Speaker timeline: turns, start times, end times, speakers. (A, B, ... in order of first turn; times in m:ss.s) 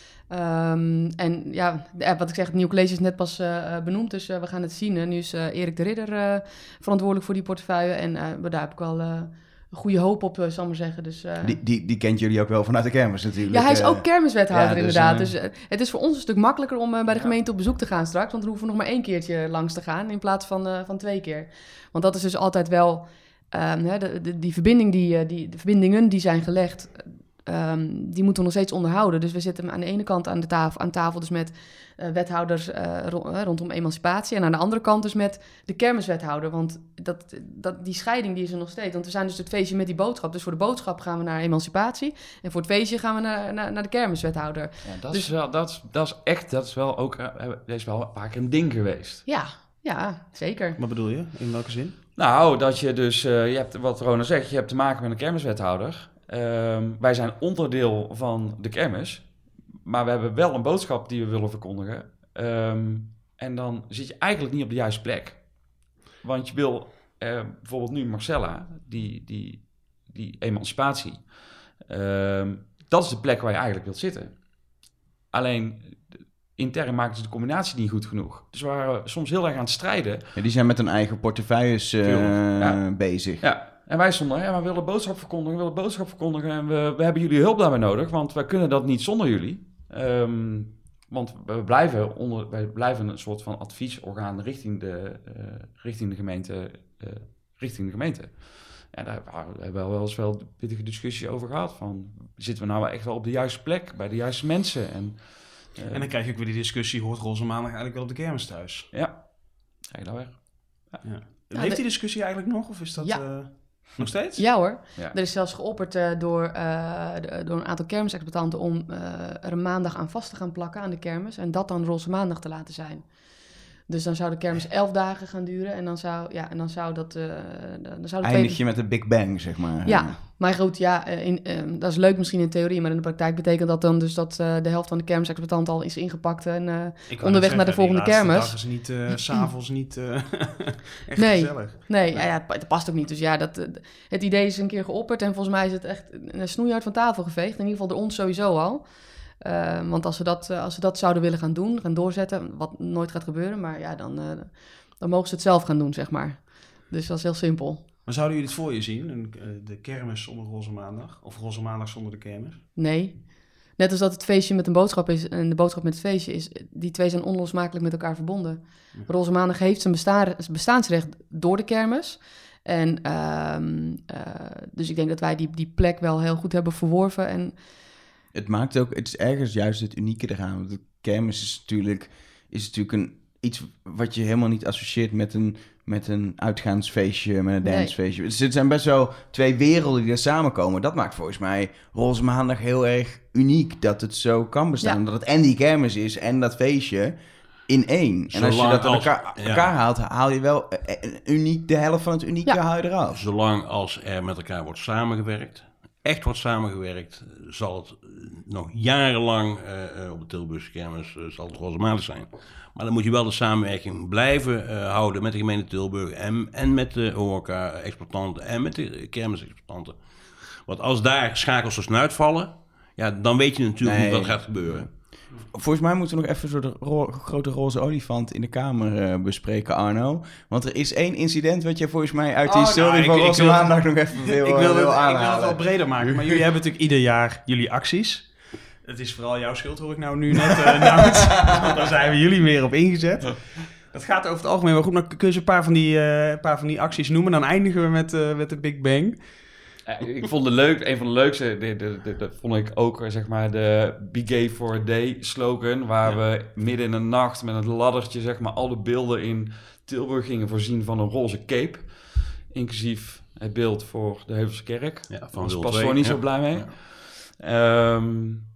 0:00.2-0:11.6 A
0:11.4-0:15.3 B
0:13.5-0:45.3 A
0:17.1-0:17.4 C
0:44.8-0:49.2 C
0:49.3-0:50.8 A
0:50.8-0:52.0 D
0:52.2-1:20.3 C
1:20.4-1:23.4 B
1:22.1-1:46.1 C
1:45.9-1:48.9 D
1:48.9-1:51.0 C
1:51.0-1:54.6 D
1:51.6-1:52.0 A
1:53.0-2:08.6 A
2:08.2-2:10.2 B
2:09.8-2:18.9 A
2:17.1-2:22.3 D
2:21.2-2:37.9 A
2:38.0-2:42.7 D
2:42.8-2:57.6 A
2:58.3-3:23.2 B
3:07.6-3:07.9 A
3:18.3-3:19.7 E
3:23.1-3:45.0 E
3:43.8-3:56.3 B
3:52.5-4:09.3 D
4:09.9-4:28.5 C
4:25.1-4:26.7 E